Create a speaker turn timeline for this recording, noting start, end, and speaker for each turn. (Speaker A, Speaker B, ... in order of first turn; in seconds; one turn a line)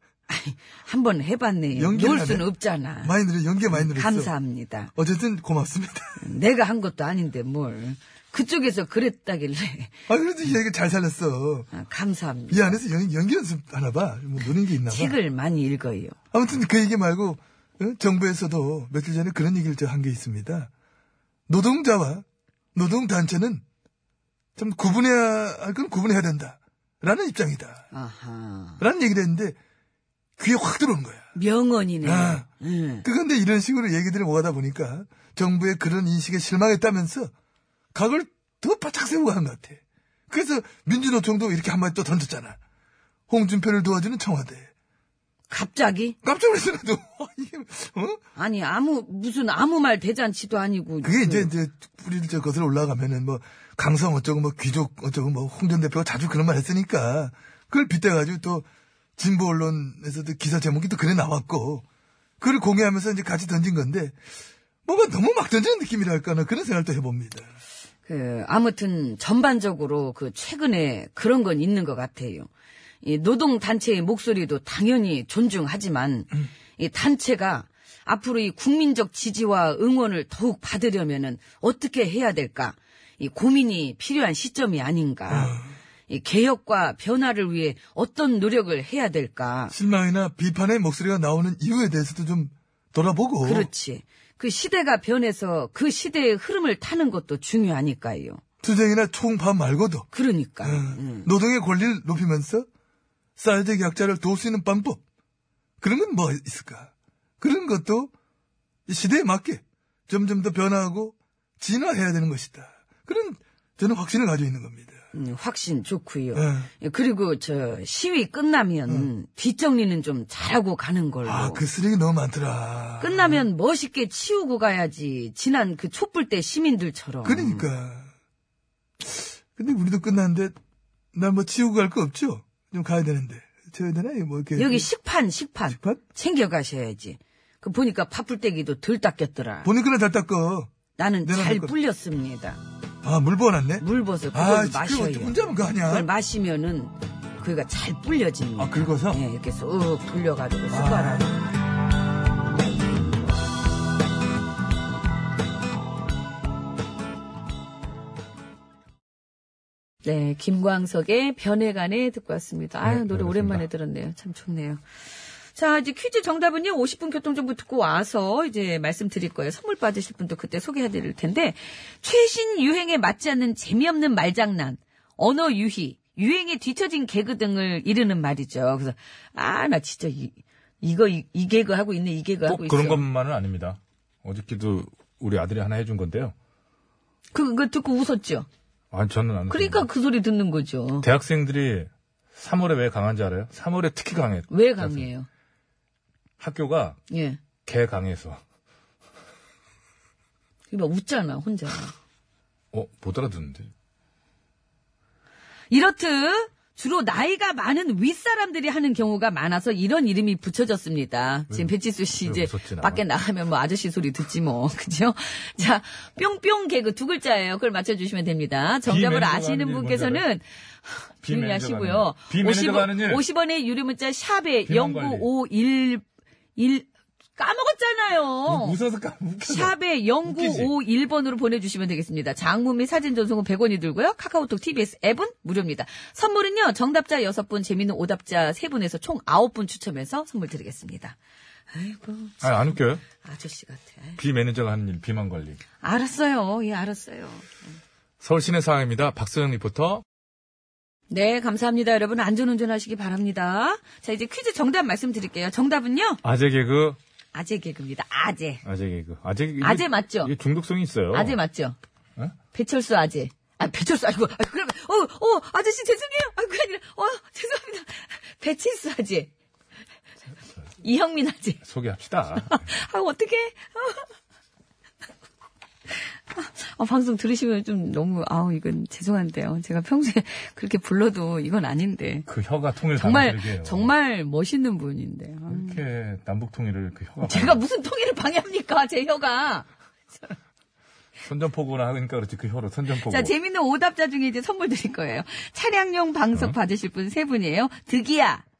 Speaker A: 0.3-3.1
Speaker B: 1.8-2.5
Speaker B: 3.0-4.3
Speaker A: 3.7-4.9
Speaker B: 4.9-6.2
Speaker A: 6.2-9.9
Speaker B: 10.1-11.7
Speaker A: 11.7-12.8
Speaker B: 12.5-15.2
Speaker A: 14.9-16.1
Speaker B: 16.3-20.7
Speaker B: 21.5-23.6
Speaker B: 24.6-27.8
Speaker A: 27.9-28.8
Speaker B: 28.8-29.6
Speaker B: 30.4-31.2
Speaker A: 31.3-33.0
Speaker B: 32.0-32.5
Speaker B: 33.0-37.3
Speaker B: 37.9-42.6
Speaker B: 43.3-44.7
Speaker A: 45.5-46.1
Speaker B: 46.2-48.2
Speaker A: 48.4-51.5
Speaker B: 51.0-58.6
Speaker B: 59.2-61.8
Speaker B: 62.4-64.2
Speaker B: 64.8-67.5
Speaker A: 68.0-72.5
Speaker A: 73.0-89.7
Speaker B: 85.3-85.7
Speaker B: 89.7-93.7
Speaker A: 93.4-98.4
Speaker B: 98.6-100.1
Speaker A: 100.1-101.3
Speaker B: 100.6-102.7
Speaker B: 103.4-105.0
Speaker B: 105.8-108.1
Speaker B: 108.9-115.0
Speaker A: 115.1-121.6
Speaker B: 116.3-116.7
Speaker B: 121.2-123.4
Speaker A: 123.0-127.7
Speaker B: 127.2-128.1
Speaker B: 129.0-130.5
Speaker B: 131.1-134.9
Speaker A: 134.6-139.7
Speaker B: 135.7-136.0
Speaker B: 139.6-140.7
Speaker A: 140.9-142.6
Speaker B: 141.2-141.7
Speaker B: 143.0-146.1
Speaker A: 143.8-151.4
Speaker B: 148.6-149.2
Speaker B: 150.7-151.4
Speaker A: 160.0-164.8
Speaker C: 162.8-163.6
Speaker A: 165.6-183.0
Speaker C: 182.5-186.3
Speaker A: 187.3-188.5
Speaker C: 188.9-189.9
Speaker A: 189.5-191.1
Speaker C: 191.0-195.1
Speaker A: 194.5-195.3
Speaker C: 196.4-197.0
Speaker A: 197.1-197.4
Speaker C: 197.6-198.4
Speaker A: 200.7-201.9
Speaker C: 202.7-203.7
Speaker A: 205.7-226.0
Speaker C: 211.5-213.0
Speaker C: 218.9-220.2
Speaker C: 221.2-223.2
Speaker C: 224.7-225.3
Speaker A: 226.6-228.8
Speaker C: 228.5-230.7
Speaker A: 229.4-241.2
Speaker A: 241.7-244.2
Speaker C: 242.4-243.0
Speaker C: 244.2-245.6
Speaker A: 245.8-247.8
Speaker C: 248.2-250.0
Speaker A: 251.1-256.2
Speaker C: 256.2-257.0
Speaker A: 257.3-258.6
Speaker C: 258.6-261.4
Speaker A: 259.6-260.3
Speaker A: 261.1-261.8
Speaker A: 262.5-269.3
Speaker A: 270.8-271.6
Speaker C: 271.6-272.6
Speaker A: 272.4-274.1
Speaker A: 276.3-282.3
Speaker C: 282.3-283.9
Speaker A: 283.0-285.8
Speaker C: 285.5-287.6
Speaker A: 287.2-290.4
Speaker C: 291.2-293.3
Speaker A: 292.9-298.4